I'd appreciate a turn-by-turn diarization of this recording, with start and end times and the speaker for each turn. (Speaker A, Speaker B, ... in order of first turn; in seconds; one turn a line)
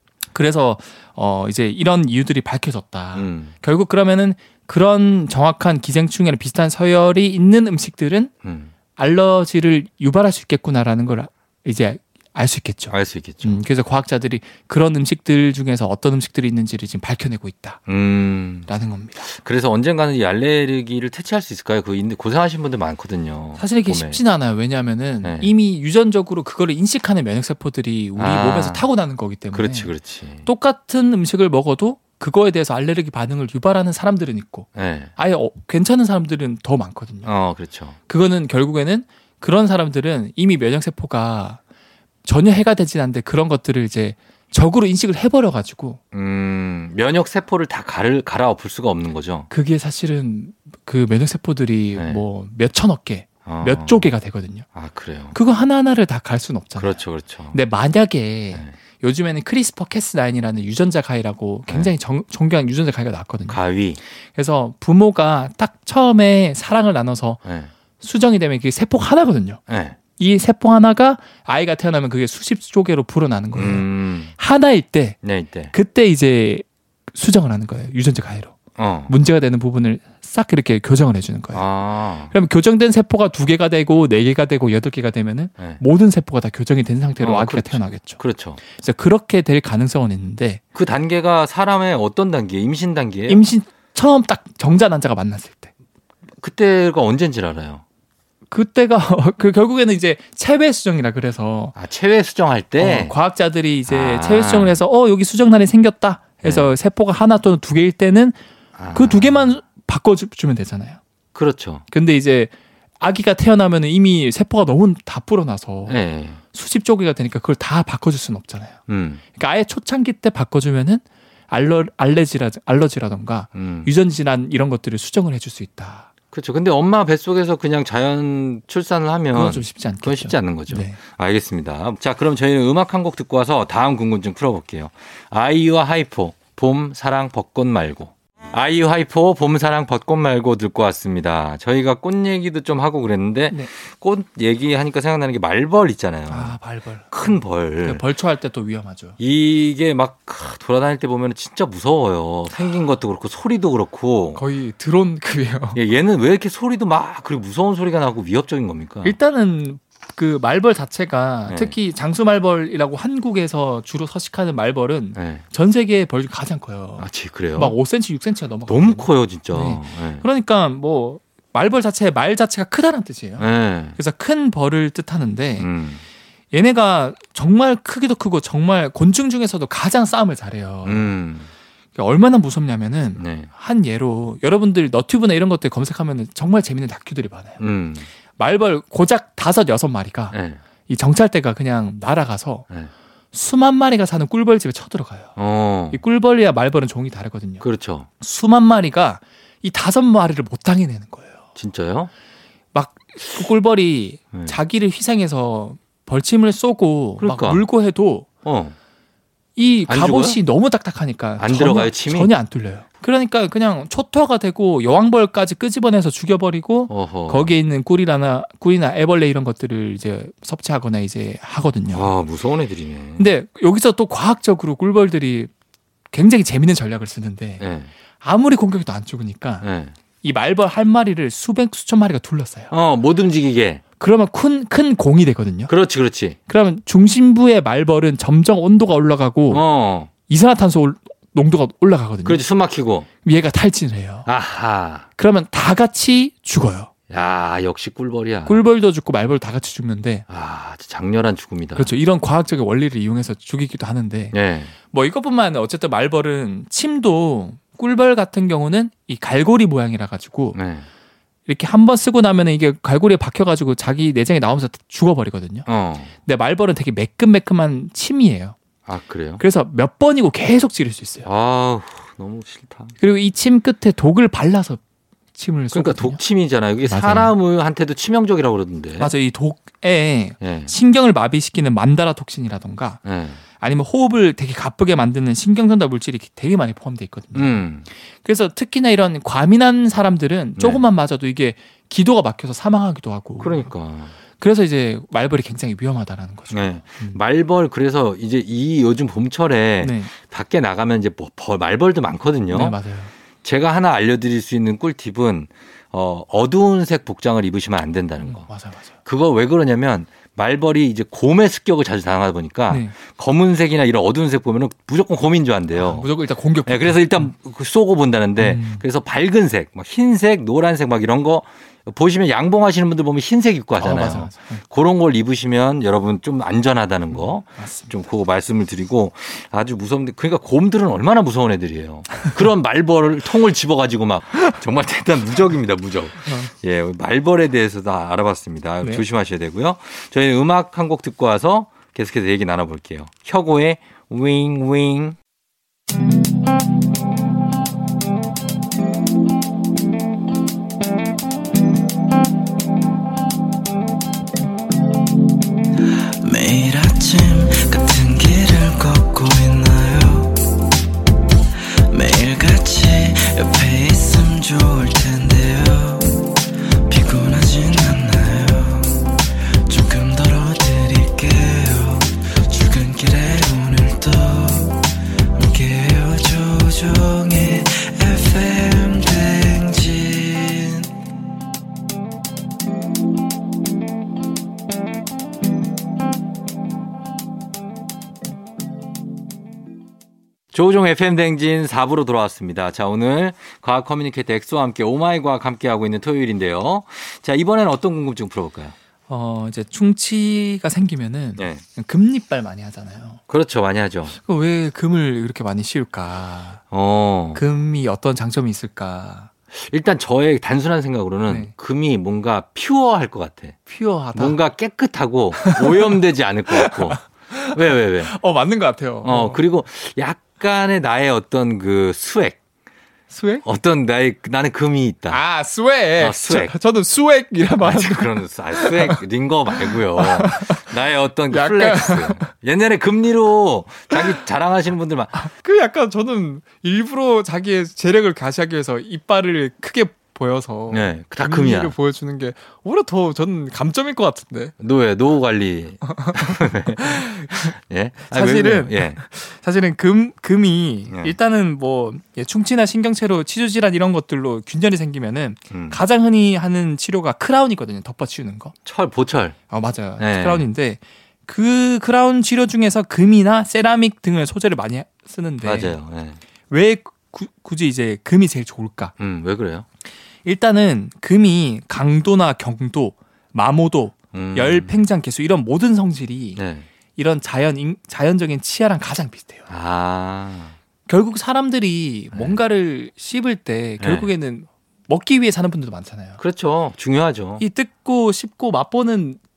Speaker A: 0.3-8.3
Speaker B: 3.1-3.5
Speaker B: 8.4-8.7
Speaker A: 8.9-17.8
Speaker B: 12.9-13.6
Speaker B: 17.9-18.7
Speaker A: 18.7-19.2
Speaker B: 19.2-24.2
Speaker A: 23.6-29.9
Speaker B: 25.2-25.5
Speaker B: 28.2-28.9
Speaker B: 29.5-30.5
Speaker A: 30.4-37.3
Speaker B: 34.7-35.1
Speaker B: 37.2-38.0
Speaker A: 38.1-41.6
Speaker A: 42.2-46.0
Speaker B: 46.1-49.5
Speaker A: 49.5-54.7
Speaker B: 51.9-52.2
Speaker B: 53.5-54.0
Speaker B: 54.7-55.3
Speaker A: 55.3-57.0
Speaker B: 56.8-57.6
Speaker A: 57.5-63.6
Speaker B: 63.5-64.0
Speaker A: 64.3-67.4
Speaker B: 67.4-67.7
Speaker A: 68.0-69.6
Speaker B: 69.7-70.0
Speaker A: 70.2-75.2
Speaker B: 73.5-74.3
Speaker B: 75.2-75.7
Speaker A: 75.7-78.5
Speaker B: 78.8-79.1
Speaker A: 79.1-81.6
Speaker B: 81.5-82.3
Speaker A: 82.3-90.6
Speaker B: 87.2-88.6
Speaker B: 90.7-93.4
Speaker A: 93.3-95.7
Speaker B: 96.4-97.8
Speaker A: 98.5-101.8
Speaker B: 101.8-103.1
Speaker A: 102.8-108.4
Speaker B: 103.9-104.8
Speaker B: 106.4-106.7
Speaker B: 108.8-109.5
Speaker A: 108.9-111.0
Speaker B: 111.3-111.8
Speaker A: 111.9-118.8
Speaker B: 115.9-116.4
Speaker B: 118.9-119.2
Speaker A: 119.3-126.1
Speaker B: 123.5-123.9
Speaker B: 126.3-146.6
Speaker A: 129.3-131.0
Speaker A: 146.3-149.2
Speaker B: 147.1-148.0
Speaker B: 149.2-154.4
Speaker A: 154.3-155.8
Speaker B: 155.7-159.2
Speaker A: 159.0-175.7
Speaker B: 161.5-161.7
Speaker B: 165.2-165.4
Speaker B: 167.0-167.8
Speaker B: 168.7-170.2
Speaker B: 173.4-173.9
Speaker B: 175.6-176.0
Speaker A: 176.5-181.1
Speaker B: 180.8-181.5
Speaker A: 181.9-187.6
Speaker B: 183.2-183.5
Speaker B: 187.6-188.1
Speaker A: 188.4-190.3
Speaker B: 190.3-190.6
Speaker A: 190.9-192.7
Speaker A: 193.3-195.3
Speaker B: 195.3-196.0
Speaker A: 195.9-197.6
Speaker B: 197.6-198.1
Speaker A: 198.2-201.4
Speaker B: 201.6-202.1
Speaker A: 202.7-208.3
Speaker B: 207.2-207.6
Speaker B: 208.4-208.7
Speaker A: 209.6-222.1
Speaker B: 209.9-210.4
Speaker B: 211.4-212.3
Speaker B: 216.9-217.5
Speaker B: 221.9-223.2
Speaker A: 223.2-225.5
Speaker A: 226.1-227.7
Speaker B: 227.6-227.9
Speaker A: 228.2-229.7
Speaker B: 229.6-229.9
Speaker A: 230.2-232.7
Speaker B: 232.7-233.8
Speaker A: 234.0-235.7
Speaker B: 235.7-236.4
Speaker A: 236.5-239.6
Speaker B: 239.5-240.1
Speaker A: 240.3-242.4
Speaker B: 242.2-243.1
Speaker A: 243.2-244.3
Speaker B: 244.2-245.1
Speaker A: 245.2-246.9
Speaker B: 247.1-248.6
Speaker A: 248.4-250.2
Speaker B: 250.3-251.9
Speaker A: 251.8-254.3
Speaker B: 254.3-254.7
Speaker A: 254.9-260.6
Speaker B: 260.5-260.9
Speaker A: 261.5-265.7
Speaker B: 265.7-266.1
Speaker A: 266.2-268.6
Speaker B: 268.9-269.4
Speaker A: 269.4-271.3
Speaker B: 271.2-272.9
Speaker A: 273.0-274.8
Speaker A: 275.3-276.2
Speaker B: 275.7-279.1
Speaker A: 276.9-277.3
Speaker A: 279.0-283.0
Speaker B: 280.4-280.7
Speaker B: 283.0-283.4
Speaker A: 283.6-287.6
Speaker B: 287.3-287.9
Speaker A: 288.2-293.7
Speaker B: 290.6-290.8
Speaker B: 293.4-294.1
Speaker A: 294.4-297.2
Speaker B: 296.5-302.8
Speaker A: 299.8-300.1
Speaker A: 302.5-303.1
Speaker B: 303.4-308.5
Speaker A: 308.2-308.9
Speaker B: 309.0-316.1
Speaker A: 312.7-312.9
Speaker A: 315.7-317.3
Speaker B: 316.6-345.2
Speaker A: 318.4-318.8
Speaker A: 323.8-324.6
Speaker A: 327.1-327.9
Speaker A: 336.2-336.5
Speaker C: 356.2-360.4
Speaker C: 361.9-380.9
Speaker B: 390.5-398.7
Speaker A: 399.1-403.2
Speaker B: 401.4-401.6
Speaker B: 403.3-404.1
Speaker A: 404.1-406.6
Speaker B: 406.7-407.4
Speaker A: 407.3-409.3
Speaker B: 409.5-413.6
Speaker A: 411.3-411.5
Speaker A: 413.7-414.4
Speaker B: 414.1-418.1
Speaker A: 415.3-419.4
Speaker B: 419.0-422.4
Speaker A: 423.1-423.4
Speaker B: 423.4-425.2
Speaker A: 425.1-429.0
Speaker B: 426.0-426.5
Speaker B: 427.6-435.2
Speaker A: 429.5-430.7
Speaker A: 431.3-432.3
Speaker A: 433.9-434.2
Speaker A: 435.2-444.5
Speaker B: 440.7-441.7
Speaker B: 444.6-449.0
Speaker A: 445.9-447.5
Speaker A: 448.1-458.5
Speaker B: 450.9-451.1
Speaker B: 455.5-455.8
Speaker B: 458.6-459.4
Speaker A: 459.5-465.8
Speaker B: 460.0-460.5
Speaker B: 465.4-466.2
Speaker A: 466.5-468.9
Speaker B: 469.0-469.6
Speaker A: 470.2-476.4
Speaker B: 474.1-474.7
Speaker B: 476.4-476.6
Speaker A: 476.9-479.5
Speaker B: 479.5-480.6
Speaker A: 480.9-486.2
Speaker B: 482.1-482.4
Speaker B: 483.8-484.1
Speaker B: 486.2-487.4
Speaker A: 487.4-489.2